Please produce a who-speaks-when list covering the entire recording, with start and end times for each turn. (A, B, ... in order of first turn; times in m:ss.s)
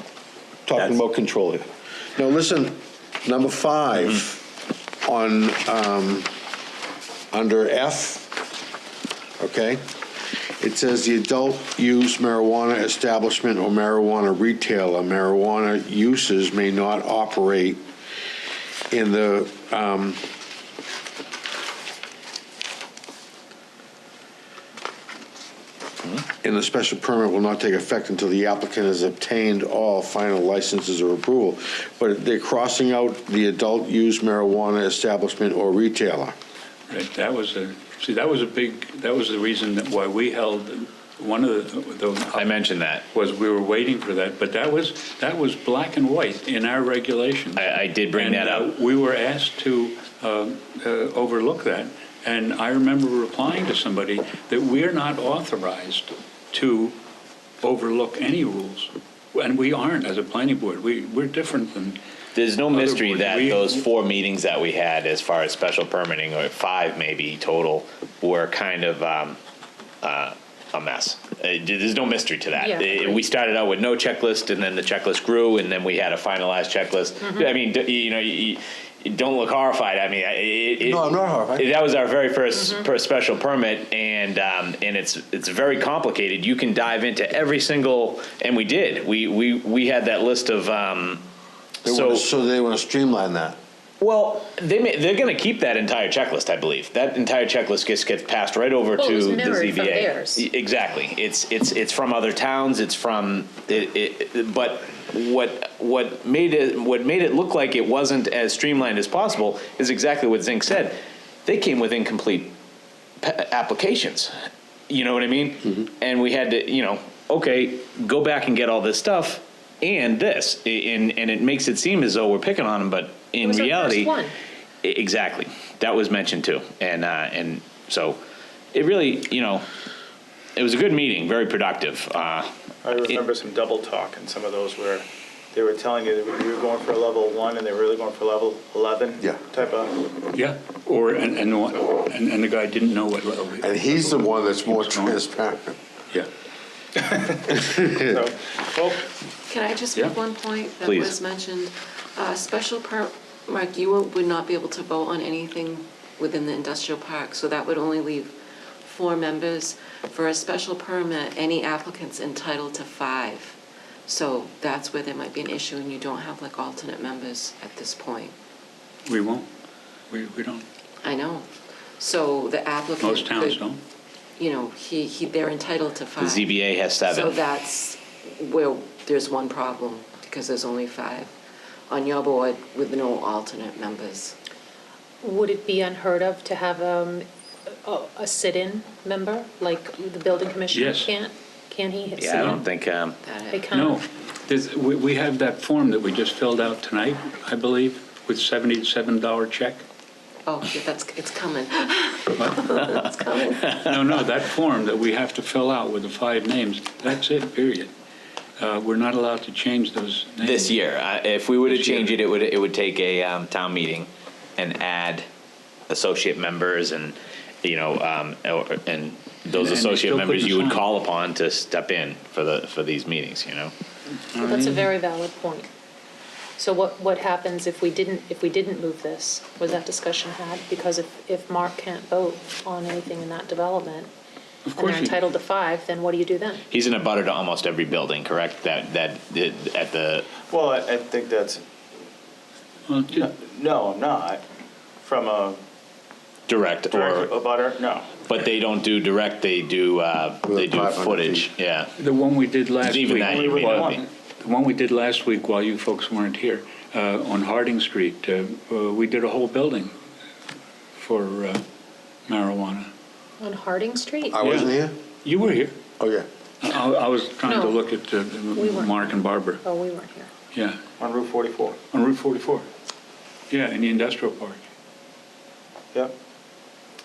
0:00.6-0:04.5 A
0:05.0-0:06.3 A
0:07.3-0:08.4 A
0:09.4-0:09.8 A
0:10.6-0:17.8 A
0:18.9-0:20.2 A
0:26.4-0:36.3 A
0:36.9-0:42.5 B
0:42.3-0:43.0 C
0:43.1-0:57.0 B
0:47.6-0:48.7 C
0:57.6-1:02.0 B
1:02.3-1:09.4 C
1:02.7-1:03.8 B
1:10.0-1:21.0 C
1:12.6-1:13.3 D
1:20.8-1:21.7 A
1:21.6-1:31.2 C
1:31.8-1:33.6 A
1:31.9-1:32.2 C
1:34.0-1:52.5 C
1:39.0-1:40.5 D
1:53.2-1:54.3 C
1:54.9-2:04.1 C
2:03.4-2:04.3 D
2:04.8-2:08.2 C
2:08.7-2:09.6 C
2:10.6-2:12.5 C
2:12.8-2:20.0 E
2:20.3-2:25.2 B
2:23.6-2:25.8 A
2:27.5-2:28.1 A
2:28.1-2:29.0 E
2:29.5-2:48.3 F
2:30.8-2:31.2 C
2:49.1-2:49.5 B
2:50.1-2:50.6 B
2:51.0-2:53.6 F
2:53.0-2:53.8 B
2:54.4-3:01.3 F
2:56.2-2:57.4 C
3:01.9-3:04.4 F
3:05.2-3:07.2 D
3:07.8-3:12.6 D
3:10.7-3:11.1 B
3:12.2-3:13.2 C
3:13.2-3:13.7 F
3:13.5-3:14.0 D
3:13.7-3:19.8 B
3:20.4-3:23.8 F
3:23.7-3:27.9 B
3:28.6-3:30.8 B
3:30.4-3:35.2 C
3:31.6-3:32.1 B
3:35.9-3:43.7 C
3:39.4-3:40.8 B
3:44.3-3:45.0 B
3:44.4-3:45.7 D
3:46.6-3:54.1 D
3:54.6-3:55.2 B
3:54.7-3:56.6 D
3:56.7-4:00.3 C
4:00.5-4:01.6 E
4:02.9-4:03.2 B
4:03.2-4:04.4 E
4:05.0-4:05.6 E
4:06.5-4:07.3 C
4:06.9-4:08.0 E
4:08.2-4:11.9 C
4:10.4-4:11.5 A
4:12.0-4:19.9 B
4:12.8-4:14.0 C
4:21.0-4:21.6 B
4:22.3-4:22.9 B
4:23.4-4:24.4 D
4:24.3-4:25.0 A
4:24.4-4:24.7 B
4:25.2-4:25.7 B
4:26.0-4:26.2 A
4:26.6-4:29.6 B
4:27.4-4:27.8 D
4:28.5-4:30.3 D
4:30.5-4:30.8 B
4:31.0-4:31.7 E
4:31.9-4:32.7 B
4:33.5-4:34.6 B